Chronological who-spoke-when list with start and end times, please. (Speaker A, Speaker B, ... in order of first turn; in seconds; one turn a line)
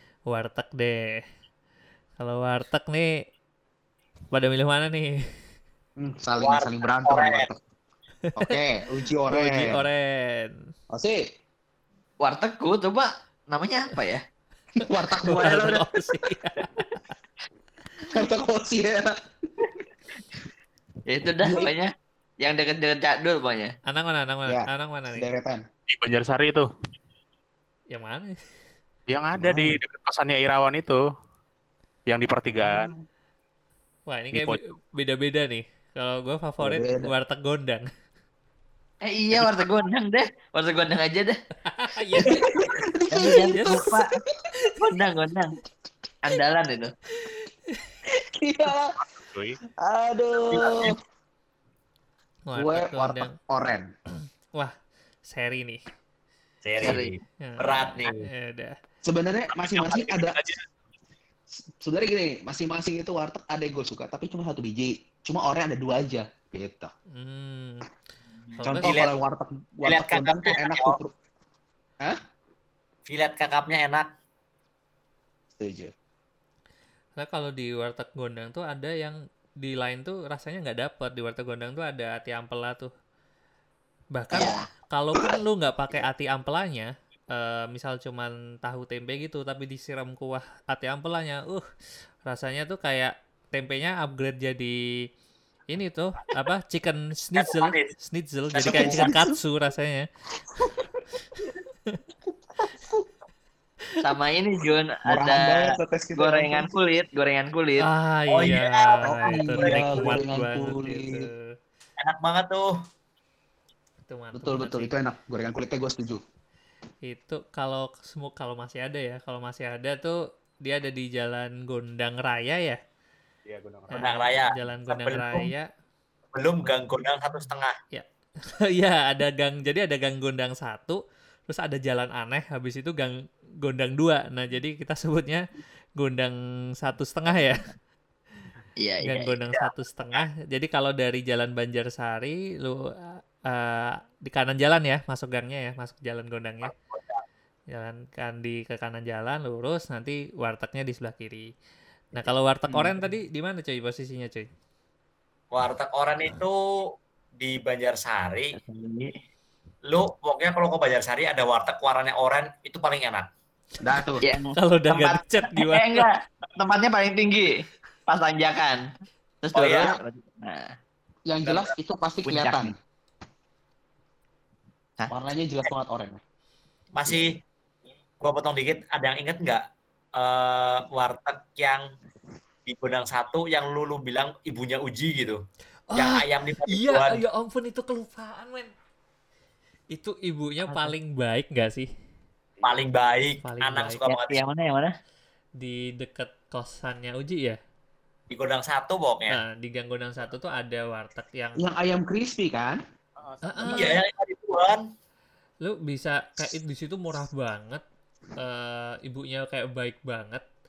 Speaker A: 0.3-1.2
Speaker A: 2.2-3.2
Speaker A: 4.3-5.2
Speaker B: 6.0-7.6
Speaker C: 6.4-7.5
Speaker B: 8.4-9.8
Speaker A: 9.3-10.7
Speaker B: 10.9-11.2
Speaker D: 12.2-14.2
Speaker B: 14.8-16.1
Speaker A: 14.8-16.9
Speaker B: 18.0-19.1
Speaker D: 21.1-23.8
Speaker B: 21.4-21.7
Speaker A: 23.9-25.3
Speaker B: 24.5-25.6
Speaker E: 25.9-26.7
Speaker A: 27.9-28.4
Speaker E: 29.1-31.0
Speaker B: 29.4-29.8
Speaker E: 32.1-32.9
Speaker B: 32.6-33.0
Speaker A: 34.1-37.9
Speaker E: 34.3-34.6
Speaker B: 36.6-37.1
Speaker D: 39.0-41.4
Speaker A: 41.7-42.5
Speaker B: 42.2-44.1
Speaker D: 43.1-44.1
Speaker A: 43.5-43.9
Speaker A: 44.6-44.9
Speaker D: 44.8-45.6
Speaker D: 46.2-46.9
Speaker A: 47.2-47.9
Speaker B: 48.1-49.0
Speaker E: 49.2-49.6
Speaker B: 49.8-51.0
Speaker C: 50.5-51.0
Speaker A: 52.5-53.4
Speaker B: 52.6-53.9
Speaker A: 55.3-55.8
Speaker C: 56.6-58.2
Speaker D: 56.8-57.1
Speaker A: 57.4-58.8
Speaker B: 59.0-60.4
Speaker E: 59.7-60.6
Speaker B: 61.8-66.9
Speaker A: 67.1-67.9
Speaker A: 68.6-68.9
Speaker B: 68.6-71.1
Speaker C: 68.8-69.1
Speaker C: 69.8-71.0
Speaker C: 73.1-74.1
Speaker B: 75.6-75.9
Speaker A: 77.2-82.9
Speaker A: 84.1-91.7
Speaker B: 84.3-84.7
Speaker A: 92.2-94.8
Speaker A: 95.7-100.1
Speaker C: 97.4-97.9
Speaker C: 98.5-99.2
Speaker B: 98.6-99.2
Speaker B: 100.6-100.8
Speaker B: 102.7-103.0
Speaker D: 104.0-107.9
Speaker B: 105.1-106.7
Speaker A: 107.8-111.5
Speaker C: 108.3-110.2
Speaker B: 109.0-111.2
Speaker C: 112.0-112.7
Speaker A: 114.1-114.9
Speaker B: 114.3-116.2
Speaker A: 117.1-122.8
Speaker E: 123.5-124.2
Speaker A: 123.9-125.7
Speaker C: 124.0-125.5
Speaker C: 126.3-127.8
Speaker A: 128.6-135.4
Speaker A: 136.0-137.7
Speaker D: 138.8-139.4
Speaker A: 139.1-146.7
Speaker C: 146.7-147.2
Speaker A: 147.7-151.5
Speaker A: 152.1-154.5
Speaker D: 152.7-153.0
Speaker C: 155.5-158.6
Speaker D: 158.6-159.1
Speaker C: 159.9-163.3
Speaker B: 163.8-164.2
Speaker D: 164.2-168.9
Speaker A: 164.6-166.1
Speaker D: 169.4-170.8
Speaker C: 169.6-169.9
Speaker B: 169.7-170.0
Speaker B: 171.3-172.8
Speaker C: 171.4-171.7
Speaker D: 172.2-172.7
Speaker B: 175.1-176.2
Speaker C: 176.9-177.4
Speaker C: 178.2-181.8
Speaker C: 182.7-185.4
Speaker A: 185.9-188.7
Speaker C: 185.9-187.2
Speaker A: 189.9-191.9
Speaker E: 192.6-192.9
Speaker C: 192.6-194.4
Speaker A: 193.4-194.0
Speaker D: 194.1-194.9
Speaker A: 195.6-197.6
Speaker C: 198.3-199.4
Speaker A: 199.3-201.6
Speaker B: 201.6-202.8
Speaker E: 203.2-204.0
Speaker A: 203.4-204.0
Speaker C: 203.7-204.8
Speaker A: 205.6-207.8
Speaker A: 208.4-210.4